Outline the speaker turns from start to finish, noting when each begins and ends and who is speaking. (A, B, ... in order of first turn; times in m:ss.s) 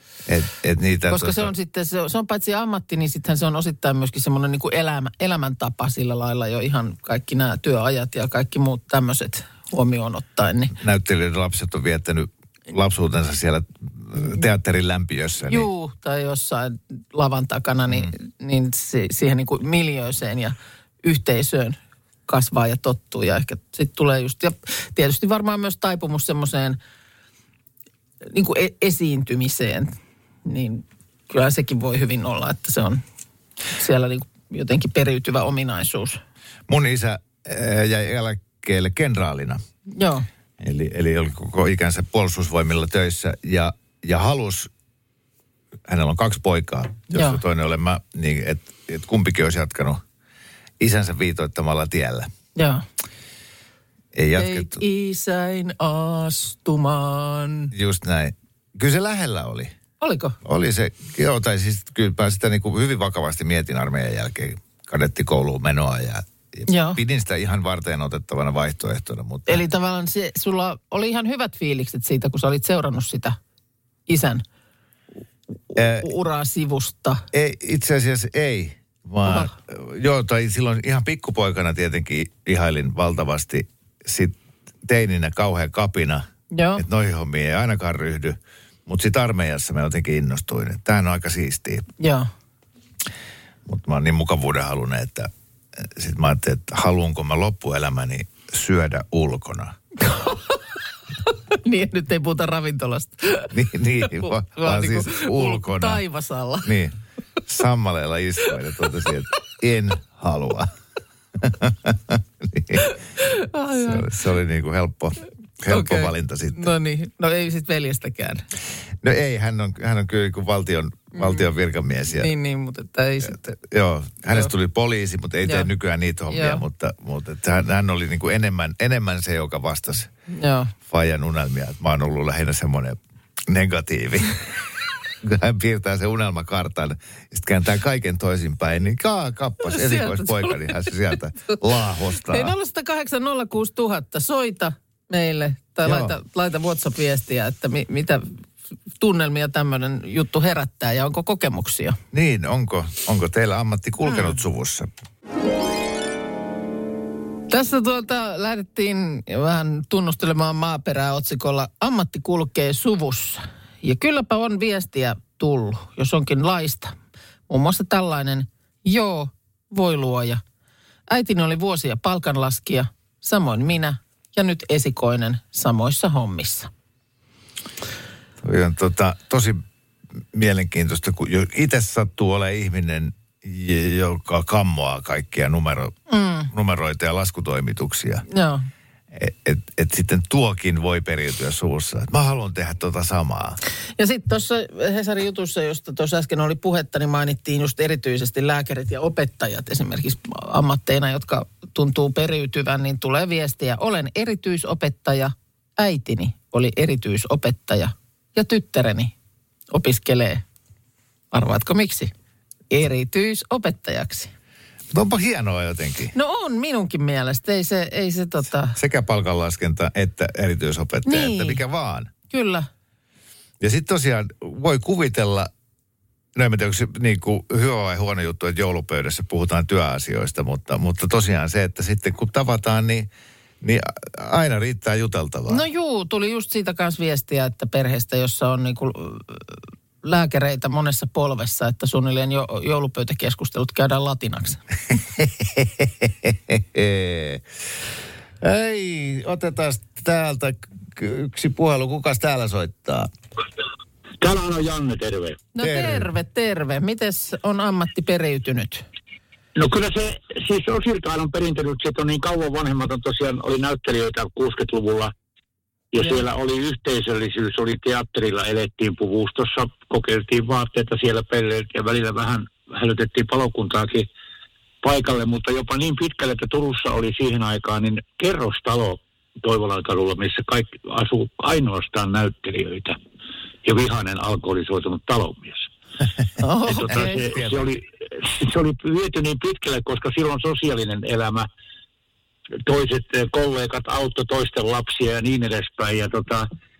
0:00.3-0:01.5 A
0:01.1-0:10.8 B
0:10.7-0:15.7 A
0:15.5-0:26.8 B
0:28.3-0:33.0 B
0:33.8-0:36.2 B
0:36.7-0:39.6 A
0:39.9-0:40.3 B
0:40.6-0:44.7 A
0:45.9-0:50.0 A
0:47.1-0:47.4 B
0:50.8-0:52.3 A
0:52.6-0:52.8 B
0:54.1-0:54.8 A
0:54.4-0:57.7 B
0:57.7-0:59.7 A
1:00.0-1:00.4 B
1:00.4-1:09.6 A
1:06.7-1:07.0 B
1:09.5-1:13.4 B
1:14.1-1:14.4 B
1:15.7-1:17.3 B
1:15.8-1:16.1 A
1:17.3-1:31.9 A
1:19.2-1:19.5 B
1:26.5-1:26.8 B
1:32.0-1:32.3 B
1:33.7-1:39.8 A
1:40.1-1:40.6 B
1:41.3-1:46.7 B
1:43.5-1:46.0 A
1:46.6-1:46.9 A
1:47.5-1:50.7 A
1:51.4-1:52.8 A
1:52.8-1:54.1 B
1:53.8-1:56.7 A
1:55.7-1:58.4 B
1:59.0-2:02.3 A
2:01.2-2:01.5 B
2:02.1-2:03.4 B
2:03.2-2:10.1 A
2:05.4-2:05.7 B
2:06.3-2:06.6 B
2:10.3-2:10.7 B
2:10.9-2:14.7 A
2:15.2-2:22.5 A
2:19.6-2:21.6 B
2:22.2-2:28.4 B
2:25.8-2:26.2 A
2:29.0-2:32.0 B
2:32.1-2:34.9 A
2:34.1-2:34.4 B
2:37.5-2:47.0 B
2:47.5-2:50.4 B
2:51.1-2:56.7 B
2:58.4-2:59.6 A
3:00.3-3:06.0 A
3:06.1-3:06.5 B
3:06.5-3:08.2 A
3:08.3-3:08.7 B
3:09.1-3:13.6 A
3:14.0-3:29.1 B
3:29.7-3:30.4 B
3:31.3-3:32.1 B
3:32.7-3:34.3 B
3:34.9-3:36.1 A
3:36.1-3:38.8 B
3:38.8-3:42.1 A
3:41.1-3:41.6 B
3:42.3-3:42.7 B
3:43.6-3:45.5 A
3:46.4-3:53.1 A
3:53.6-3:55.6 A
3:55.5-4:04.6 B
4:04.9-4:07.4 A
4:08.4-4:13.1 A
4:14.2-4:15.4 C
4:15.5-4:18.8 B
4:15.6-4:16.1 A
4:19.6-4:25.1 C
4:25.9-4:34.1 C
4:34.8-4:43.0 C
4:43.6-4:45.7 C
4:46.4-4:47.3 B
4:46.7-4:51.5 C
4:46.9-4:47.7 A
4:52.7-4:56.5 C